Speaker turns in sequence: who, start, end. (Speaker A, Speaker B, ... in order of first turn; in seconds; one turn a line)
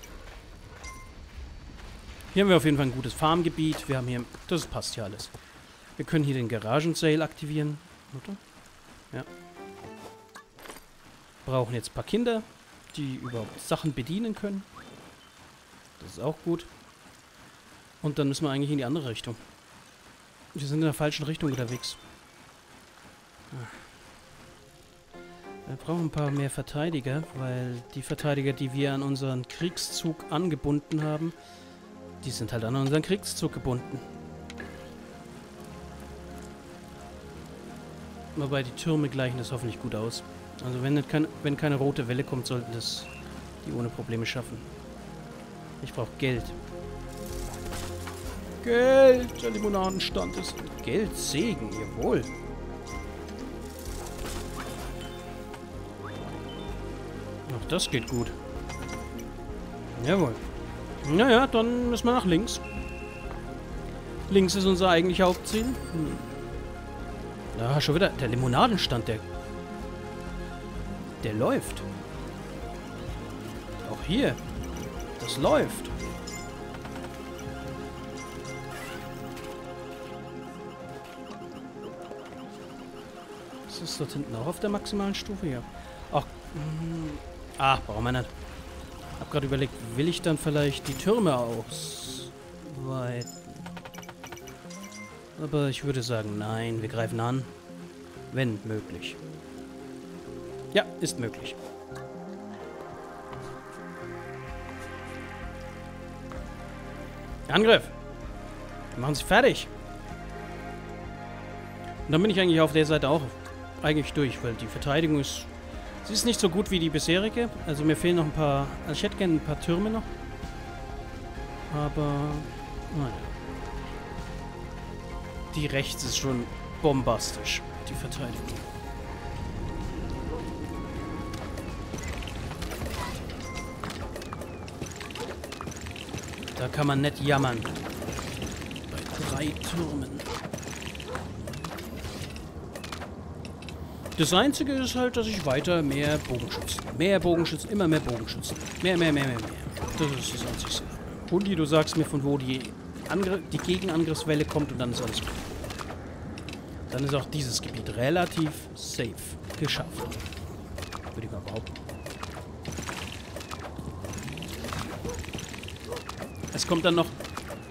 Speaker A: 2.3-5.3
Speaker A: 6.0-8.4
Speaker A: 11.4-14.7
Speaker A: 16.0-16.7
Speaker A: 18.0-19.4
Speaker A: 20.5-22.0
Speaker A: 23.5-23.8
Speaker A: 25.7-31.4
Speaker A: 32.2-34.0
Speaker A: 38.4-43.1
Speaker A: 43.6-44.7
Speaker A: 45.8-46.6
Speaker A: 48.6-52.3
Speaker A: 57.5-58.4
Speaker A: 60.0-60.4
Speaker A: 61.0-62.6
Speaker A: 64.3-66.3
Speaker A: 67.5-69.3
Speaker A: 71.2-71.9
Speaker A: 73.8-74.4
Speaker A: 75.2-75.9
Speaker A: 83.7-88.3
Speaker A: 89.1-93.6
Speaker A: 95.4-97.5
Speaker A: 98.3-99.2
Speaker A: 100.7-101.6
Speaker A: 107.5-108.0
Speaker A: 108.9-109.7
Speaker A: 112.1-115.5
Speaker A: 116.0-120.1
Speaker A: 121.7-123.3
Speaker A: 125.5-128.6
Speaker A: 136.6-137.8
Speaker A: 138.9-140.3
Speaker A: 144.2-155.5
Speaker A: 156.9-160.2
Speaker A: 161.1-161.7
Speaker A: 166.5-167.1